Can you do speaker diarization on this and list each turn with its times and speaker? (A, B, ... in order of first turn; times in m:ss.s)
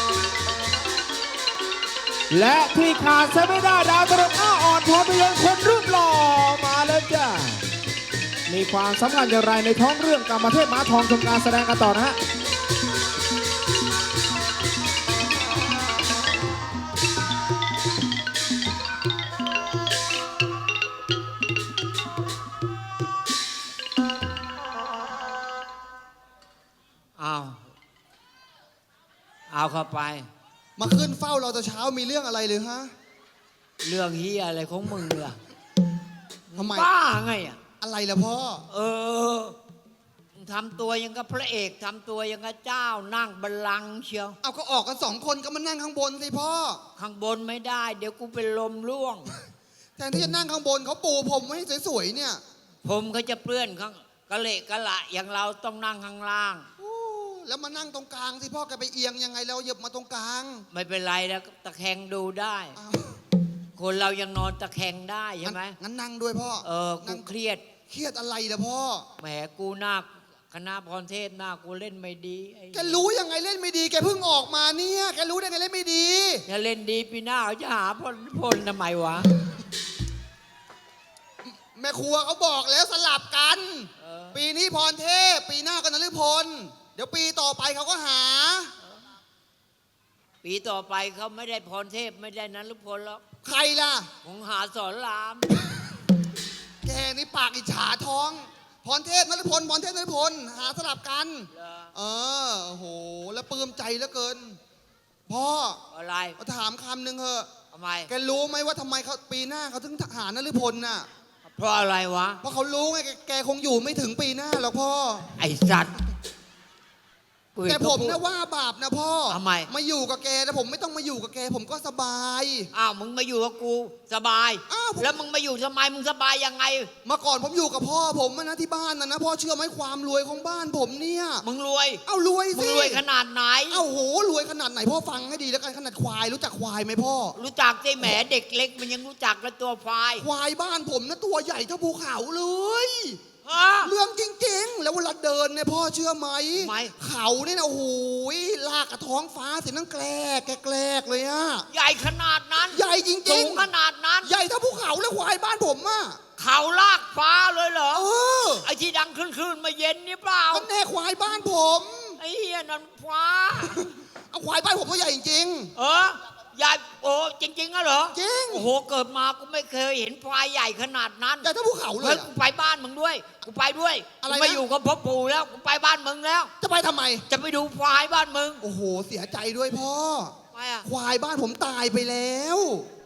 0:02.3-0:07.6 A
0:08.5-0:12.2 A
0:27.2-0:27.6 B
0:29.5-0:30.3 B
0:30.8-0:32.9 C
0:33.8-0:35.4 B
0:36.5-0:37.6 B
0:36.5-0:36.9 C
0:37.8-0:38.6 C
0:38.7-0:39.5 B
0:40.3-0:44.4 B
0:44.4-0:46.8 C
0:47.0-0:49.3 B
0:50.0-0:52.4 C
0:52.8-0:56.7 B
0:56.8-1:00.6 C
1:00.7-1:02.8 B
1:02.8-1:03.2 C
1:03.8-1:05.8 B
1:05.4-1:07.3 C
1:06.6-1:07.6 B
1:07.9-1:09.0 C
1:09.2-1:13.0 B
1:12.7-1:16.4 C
1:16.4-1:19.3 B
1:21.4-1:28.7 C
1:24.0-1:24.4 B
1:30.4-1:33.2 B
1:33.4-1:34.1 C
1:34.2-1:35.5 B
1:36.8-1:44.6 C
1:41.6-1:41.9 B
1:45.3-1:45.8 C
1:45.9-1:46.4 B
1:46.4-1:47.5 C
1:47.7-1:48.1 B
1:48.1-1:51.1 C
1:51.5-1:52.4 B
1:52.4-1:55.3 C
1:55.4-1:56.0 B
1:57.5-1:58.2 B
1:57.6-2:02.7 C
1:59.3-1:59.7 B
2:02.7-2:06.9 B
2:04.7-2:05.2 C
2:07.0-2:11.4 C
2:11.4-2:12.0 B
2:12.0-2:13.0 C
2:12.5-2:13.8 B
2:13.7-2:17.4 C
2:17.3-2:20.3 B
2:20.2-2:23.2 C
2:23.4-2:23.9 B
2:23.8-2:31.7 C
2:26.6-2:26.9 B
2:31.7-2:34.3 B
2:32.7-2:33.7 C
2:34.2-2:36.2 C
2:36.4-2:38.1 B
2:37.9-2:38.7 C
2:38.6-2:40.7 B
2:40.5-2:42.2 C
2:42.2-2:43.8 B
2:43.8-2:45.7 C
2:45.7-2:56.5 B
2:48.1-2:48.7 C
2:51.4-2:52.3 C
2:54.2-2:54.6 C
2:56.6-2:57.2 C
2:57.3-2:58.6 B
2:58.6-3:00.3 C
3:00.5-3:00.9 B
3:00.8-3:02.9 C